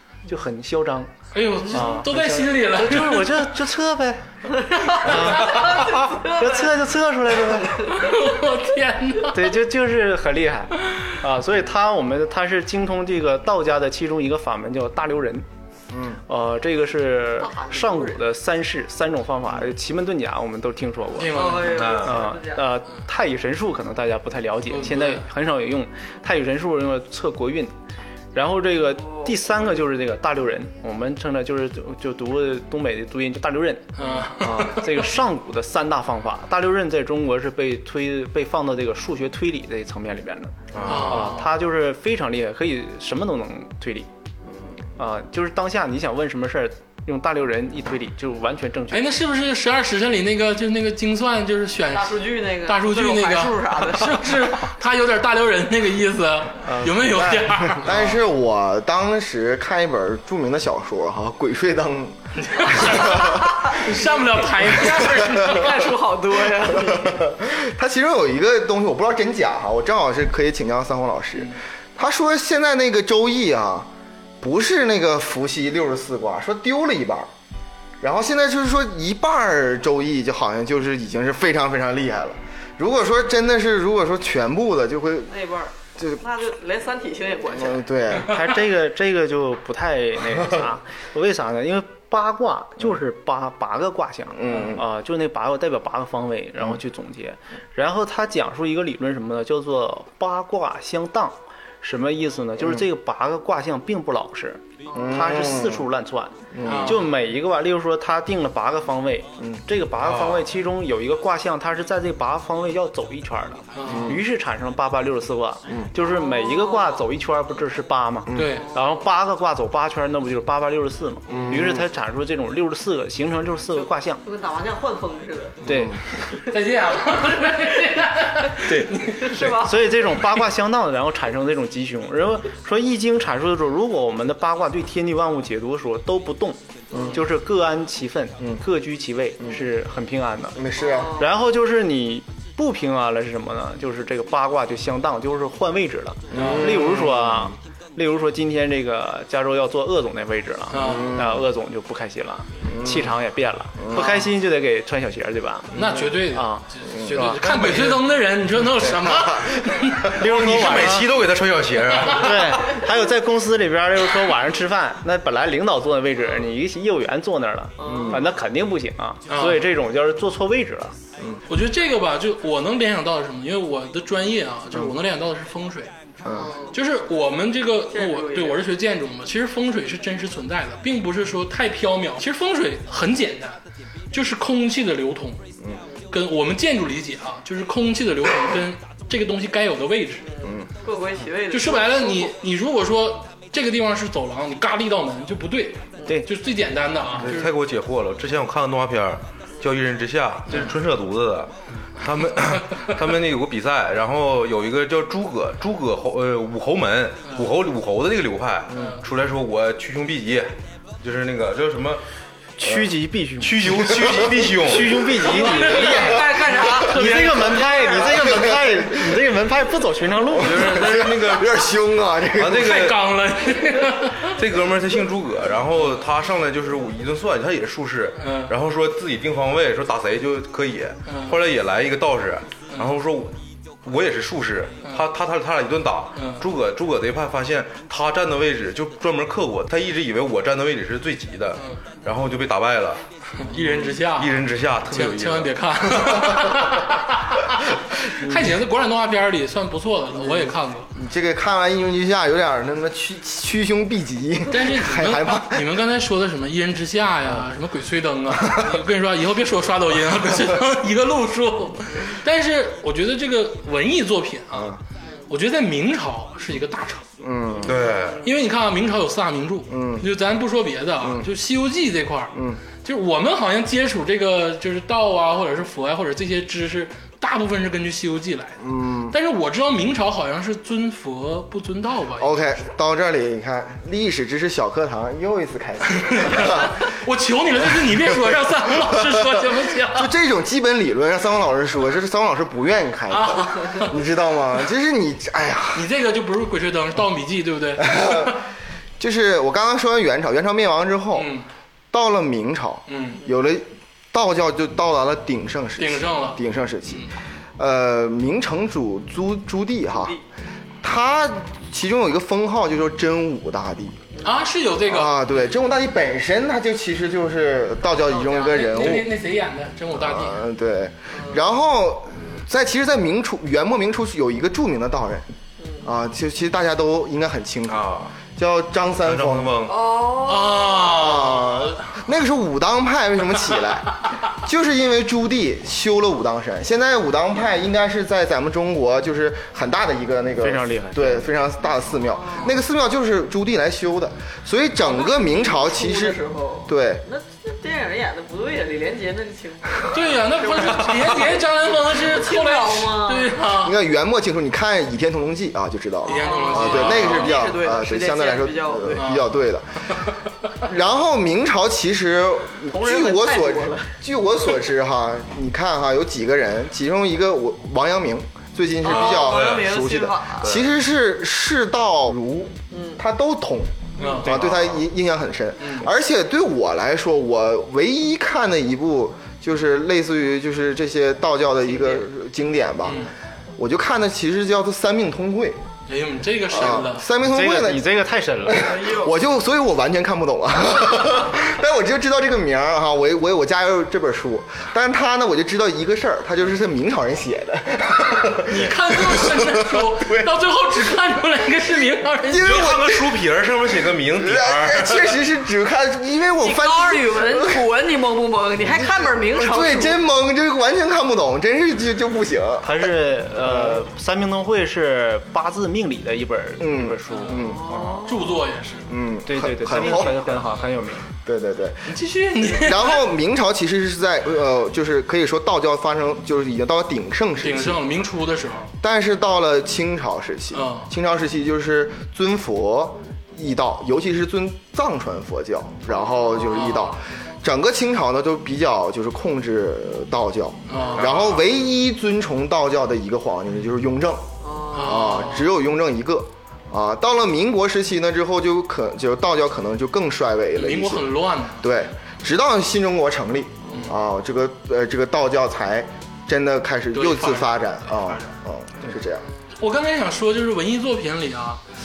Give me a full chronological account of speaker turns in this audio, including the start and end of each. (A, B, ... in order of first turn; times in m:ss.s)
0:00.3-0:01.1 A
0:01.3-0:03.5 B
0:01.6-0:08.0 A
0:04.5-0:06.7 C
0:07.8-0:09.5 B
0:09.3-0:15.5 A
0:16.3-0:27.7 A
0:17.4-0:18.2 C
0:21.2-0:22.0 B
0:21.2-0:22.6 C
0:21.6-0:22.1 D
0:24.7-0:25.2 B
0:28.4-0:44.1 A
0:29.0-0:29.3 C
0:34.0-0:35.1 B
0:40.7-0:41.3 D
0:40.8-0:41.5 B
0:45.0-0:49.1 A
0:48.9-0:58.2 B
0:51.9-0:54.4 C
0:56.6-0:57.7 A
0:57.7-1:03.6 E
1:02.4-1:06.0 B
1:03.2-1:04.0 C
1:04.9-1:05.4 E
1:05.0-1:07.3 C
1:06.5-1:13.9 E
1:14.4-1:17.3 E
1:18.0-1:25.3 E
1:25.3-1:27.9 C
1:26.0-1:26.2 E
1:27.5-1:28.4 E
1:28.3-2:04.2 A
1:34.4-1:34.8 E
1:44.9-1:45.2 C
1:44.9-1:45.9 E
1:46.5-1:47.0 E
1:46.6-1:47.1 B
1:49.4-1:49.6 E
1:50.0-1:50.5 D
1:53.8-1:54.2 B
1:53.9-1:54.2 E
1:56.1-1:57.0 C
1:58.3-1:58.6 E
1:58.3-1:58.7 B
1:58.5-1:58.9 C
2:01.3-2:01.9 E
2:04.2-2:05.6 C
2:05.6-2:06.0 A
2:05.6-2:06.0 E
2:06.3-2:06.6 C
2:06.4-2:09.4 B
2:08.6-2:38.0 A
2:09.0-2:10.2 C
2:16.9-2:17.2 E
2:16.9-2:17.2 C
2:20.5-2:21.2 E
2:20.8-2:21.3 C
2:26.3-2:27.5 E
2:26.3-2:27.0 B
2:30.7-2:31.2 B
2:30.8-2:31.4 E
2:32.7-2:33.1 E
2:33.8-2:34.1 E
2:35.8-2:41.0 B
2:39.0-2:39.6 E
2:40.1-2:41.1 A
2:40.2-2:42.6 D
2:42.1-2:51.0 A
2:47.8-2:48.3 C
2:47.8-2:48.2 E
2:49.3-2:49.6 B
2:51.5-2:55.9 B
2:56.2-2:56.5 E
2:56.3-2:56.8 C
2:56.7-3:03.6 B
2:57.9-2:58.6 C
3:04.1-3:05.4 B
3:06.1-3:10.3 B
3:10.2-3:12.3 C
3:10.4-3:10.7 E
3:11.5-3:17.5 B
3:17.2-3:32.0 D
3:28.7-3:29.0 B
3:32.6-3:40.8 A
3:33.4-3:35.2 D
3:35.2-3:38.3 C
3:35.2-3:37.0 B
3:37.8-3:39.2 E
3:40.4-3:41.6 D
3:40.4-3:42.9 E
3:42.4-3:43.0 D
3:42.5-3:44.4 B
3:44.3-4:03.0 D
3:48.2-3:48.5 B
3:51.1-3:51.4 B
3:56.1-3:56.4 B
4:03.4-4:10.9 B
4:04.1-4:06.3 D
4:10.4-4:15.8 E
4:14.5-4:24.8 B
4:24.5-4:24.8 E
4:25.3-4:27.0 B
4:27.2-4:27.8 E
4:27.6-4:28.3 D
4:28.2-4:42.5 B
4:29.7-4:30.1 E
4:31.0-4:31.3 E
4:32.3-4:32.6 E
4:38.6-4:39.2 E
4:42.2-4:46.9 E
4:46.0-4:50.1 B
4:47.6-4:55.9 E
4:53.1-4:54.0 B
4:55.7-4:58.4 B
4:57.8-4:58.4 E
4:59.0-5:01.3 E
5:01.1-5:01.5 B
5:01.9-5:10.2 E
5:02.9-5:03.2 B
5:05.8-5:07.1 B
5:10.8-5:14.0 E
5:14.2-5:15.2 B
5:14.9-5:19.1 E
5:17.9-5:19.1 C
5:18.4-5:20.4 B
5:19.9-5:25.3 E
5:21.1-5:21.4 C
5:25.6-5:25.9 C
5:25.8-5:29.7 E
5:27.7-5:28.1 D
5:29.0-5:29.8 D
5:29.6-5:31.2 C
5:30.1-5:31.9 B
5:30.9-5:47.0 E
5:40.4-5:41.3 A
5:42.1-5:42.5 C
5:44.8-5:53.4 C
5:49.9-5:53.8 B
5:53.5-6:00.0 E
5:56.0-5:59.0 C
5:56.0-5:57.5 B
5:59.0-5:59.3 B
6:00.6-6:25.6 E
6:02.7-6:03.9 C
6:08.8-6:10.6 C
6:09.2-6:09.7 D
6:12.7-6:13.0 C
6:14.0-6:14.5 B
6:15.6-6:15.9 B
6:21.7-6:22.0 C
6:22.8-6:23.1 B
6:25.9-6:27.1 B
6:26.5-6:27.9 E
6:27.2-6:28.7 A
6:28.4-6:40.3 E
6:28.5-6:29.2 C
6:38.4-6:42.8 B
6:42.2-6:43.2 E
6:42.4-6:45.1 D
6:44.1-6:47.7 E
6:46.4-6:50.0 C
6:48.6-6:52.9 E
6:52.6-6:58.1 A
6:53.4-6:53.8 E
6:56.6-6:57.7 E
6:57.1-6:57.4 B
6:57.3-6:58.4 C
6:58.0-6:58.9 B
6:58.9-7:00.3 E
6:59.3-7:01.0 A
7:01.2-7:07.9 E
7:01.9-7:03.1 B
7:07.4-7:08.7 B
7:08.8-7:39.2 E
7:10.5-7:10.9 B
7:15.9-7:17.0 C
7:20.7-7:21.4 B
7:20.7-7:21.0 C
7:24.4-7:25.2 C
7:24.7-7:25.5 B
7:30.6-7:31.7 B
7:33.7-7:34.0 B
7:36.9-7:38.3 B
7:39.6-7:41.6 B